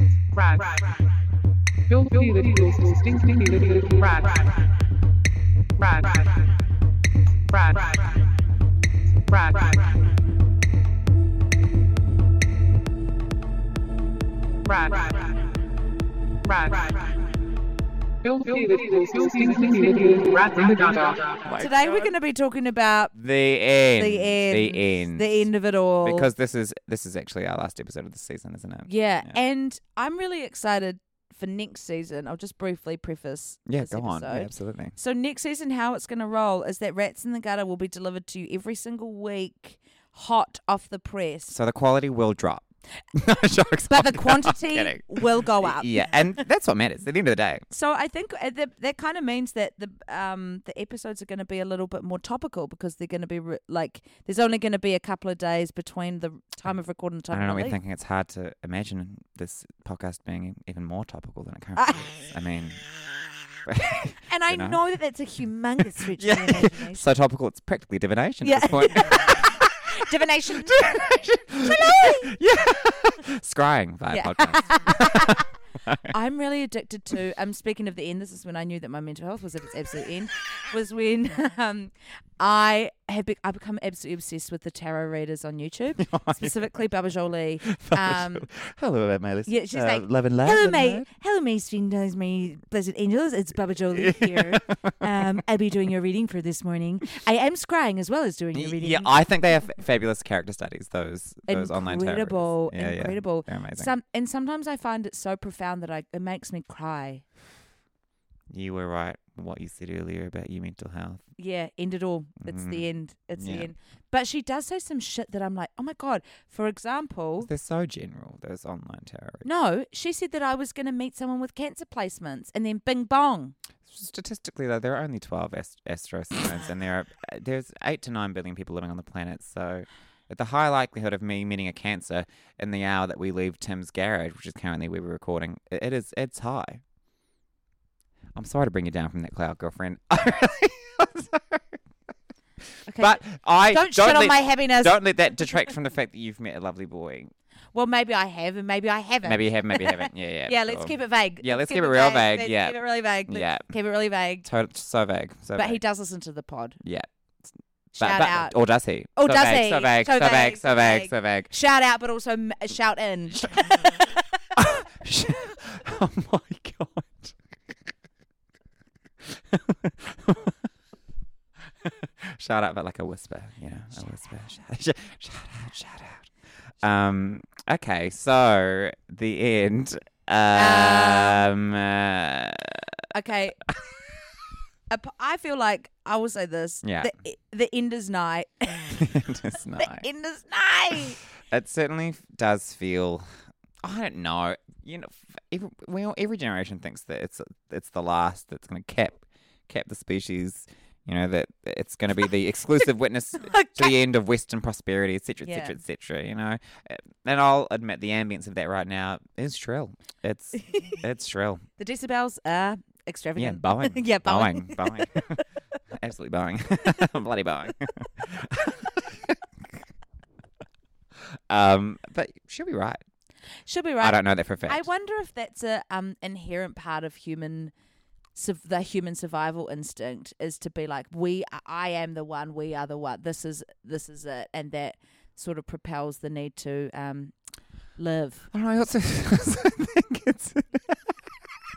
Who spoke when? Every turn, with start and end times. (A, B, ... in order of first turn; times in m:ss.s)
0:00.3-0:01.0 A
0:01.9-0:04.7 A
0:05.8-0:06.5 A
0:07.5-0:08.2 A
0:09.3-0:10.0 A
0:14.6-0:15.5 A
0:16.4-0:17.2 A
0:18.2-0:21.6 A
0:21.4-0:21.9 B
0:21.6-0:23.1 C
0:23.2-0:25.5 B
0:24.0-0:26.3 C
0:26.0-0:29.4 B
0:28.9-0:41.6 C
0:33.7-0:34.9 B
0:41.5-0:47.7 B
0:43.8-0:46.1 C
0:47.7-0:57.8 C
0:57.3-1:02.9 B
1:01.8-1:02.2 C
1:03.7-1:04.8 B
1:04.2-1:07.0 C
1:06.2-1:09.6 B
1:08.4-1:12.3 C
1:10.6-1:16.2 B
1:14.1-1:15.5 C
1:16.0-1:28.5 C
1:26.0-1:26.7 B
1:27.7-1:31.1 B
1:29.5-1:39.1 C
1:33.9-1:35.2 B
1:38.6-1:43.9 B
1:41.5-1:47.2 C
1:48.5-1:51.2 B
1:51.4-1:57.5 C
1:52.5-1:52.8 B
1:53.4-1:53.7 B
1:57.4-1:59.5 B
1:59.4-2:03.6 C
2:03.9-2:16.8 B
2:18.4-2:21.8 B
2:22.9-2:25.0 C
2:23.0-2:27.3 B
2:27.7-2:34.4 C
2:29.2-2:32.8 B
2:33.3-2:33.7 B
2:34.4-2:35.8 B
2:35.6-2:36.8 C
2:36.8-2:37.1 B
2:38.0-2:38.6 C
2:38.0-2:41.5 B
2:39.2-2:44.2 C
2:44.6-2:47.4 B
2:49.2-2:50.6 B
2:51.8-3:03.0 B
3:00.6-3:01.5 C
3:03.1-3:03.7 C
3:04.9-3:09.1 C
3:06.8-3:07.1 B
3:08.9-3:10.1 B
3:09.8-3:11.2 C
3:11.0-3:13.3 B
3:13.8-3:31.6 B
3:23.4-3:24.0 C
3:25.4-3:25.8 C
3:30.6-3:31.0 C
3:31.8-3:35.4 C
3:33.4-3:35.4 B
3:35.9-3:39.8 B
3:41.5-3:43.0 B
3:43.7-3:47.7 C
3:44.0-3:44.8 B
3:48.4-3:57.4 C
3:58.0-3:58.5 C
3:58.5-4:01.0 B